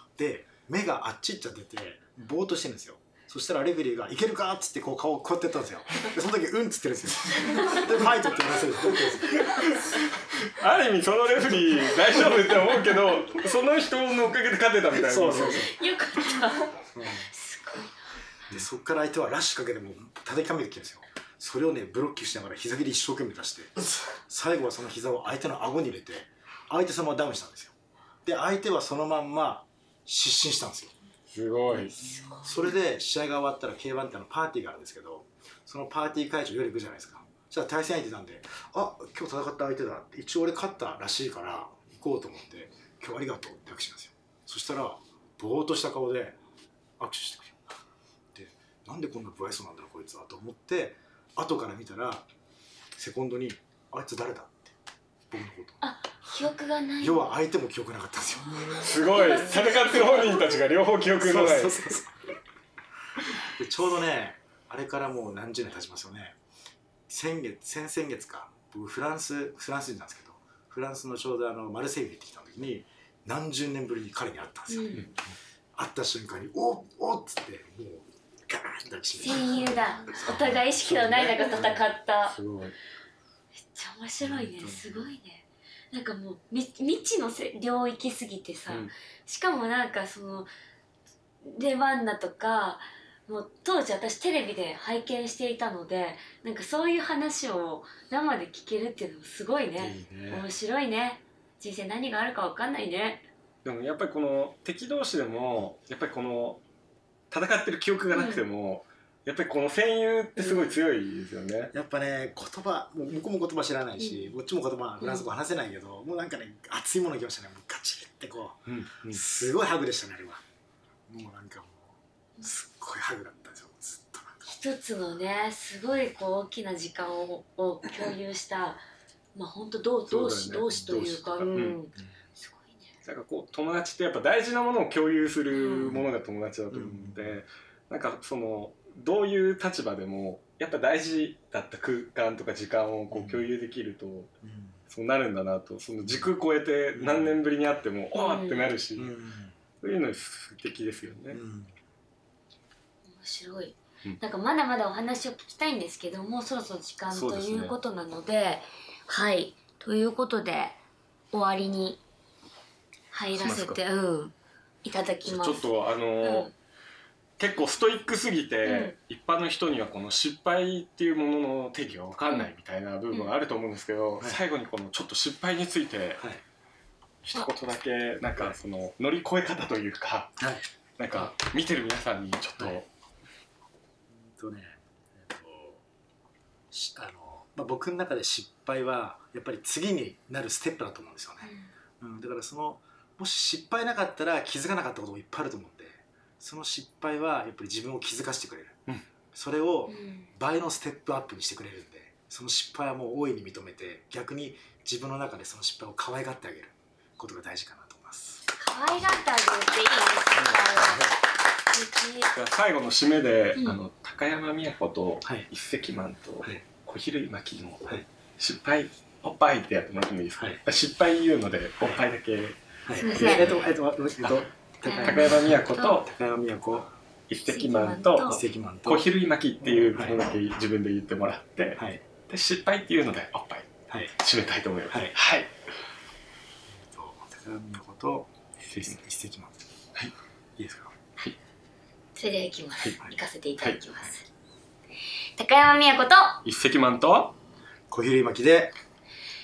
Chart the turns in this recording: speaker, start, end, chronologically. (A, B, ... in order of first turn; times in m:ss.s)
0:00.2-0:09.7 A
0:07.5-0:07.8 B
0:09.5-0:15.7 C
0:15.0-0:15.7 A
0:15.3-0:17.9 B
0:16.9-0:17.3 A
0:18.5-0:30.9 A
0:31.3-0:32.0 C
0:31.7-0:32.6 B
0:32.4-0:46.4 A
0:47.0-0:47.6 A
0:48.3-0:52.2 A
0:53.0-0:54.8 A
0:55.3-0:55.8 A
0:55.8-0:57.3 B
0:57.0-0:59.0 A
0:58.8-1:02.0 C
0:59.1-1:00.6 B
1:01.2-1:02.1 A
1:03.5-1:06.4 A
1:07.1-1:15.0 A
1:14.7-1:15.1 B
1:15.8-1:19.7 A
1:19.2-1:22.4 B
1:20.2-1:22.8 C
1:23.6-1:30.5 B
1:24.2-1:24.8 A
1:31.4-1:43.3 B
1:39.8-1:40.5 C
1:43.6-1:46.6 C
1:47.3-1:51.7 C
1:48.1-1:48.4 B
1:50.4-1:50.8 B
1:51.7-2:00.4 A
1:54.0-1:54.4 B
1:55.0-1:55.2 B
1:58.7-1:59.2 C
2:01.1-2:04.5 A
2:04.4-2:08.8 B
2:09.4-2:12.9 B
2:10.1-2:11.8 C
2:13.0-2:24.3 C
2:15.5-2:16.0 B
2:15.8-2:16.1 A
2:16.7-2:17.4 A
2:23.1-2:23.5 A
2:24.4-2:24.8 A
2:24.9-2:29.2 C
2:26.9-2:27.4 A
2:28.1-2:28.7 B
2:29.0-2:29.6 A
2:29.8-2:31.4 C
2:31.3-2:31.7 A
2:33.1-2:40.8 B
2:37.1-2:37.8 C
2:41.3-2:42.0 B
2:43.1-2:46.5 B
2:43.4-2:43.8 C
2:45.2-2:46.5 C
2:47.4-2:56.2 C
2:48.6-2:48.9 B
2:57.2-3:00.4 C
3:00.4-3:00.6 A
3:01.0-3:02.9 C
3:04.1-3:05.8 A
3:06.7-3:18.8 A
3:11.4-3:11.7 B
3:19.3-3:29.2 A
3:19.9-3:20.3 B
3:28.5-3:31.1 B
3:30.4-3:31.1 A
3:31.7-3:32.3 B
3:32.3-3:43.6 C
3:33.6-3:33.8 B
3:42.9-3:46.9 A
3:43.0-3:43.6 B
3:44.8-3:46.0 B
3:45.0-3:46.1 C
3:47.3-3:55.5 C
3:47.4-3:48.4 B
3:48.2-3:49.1 A
3:51.8-3:52.0 A
3:56.7-3:59.6 A
4:00.6-4:00.9 A
4:02.1-4:04.2 B
4:05.4-4:06.4 B
4:06.4-4:07.4 C
4:07.9-4:08.7 A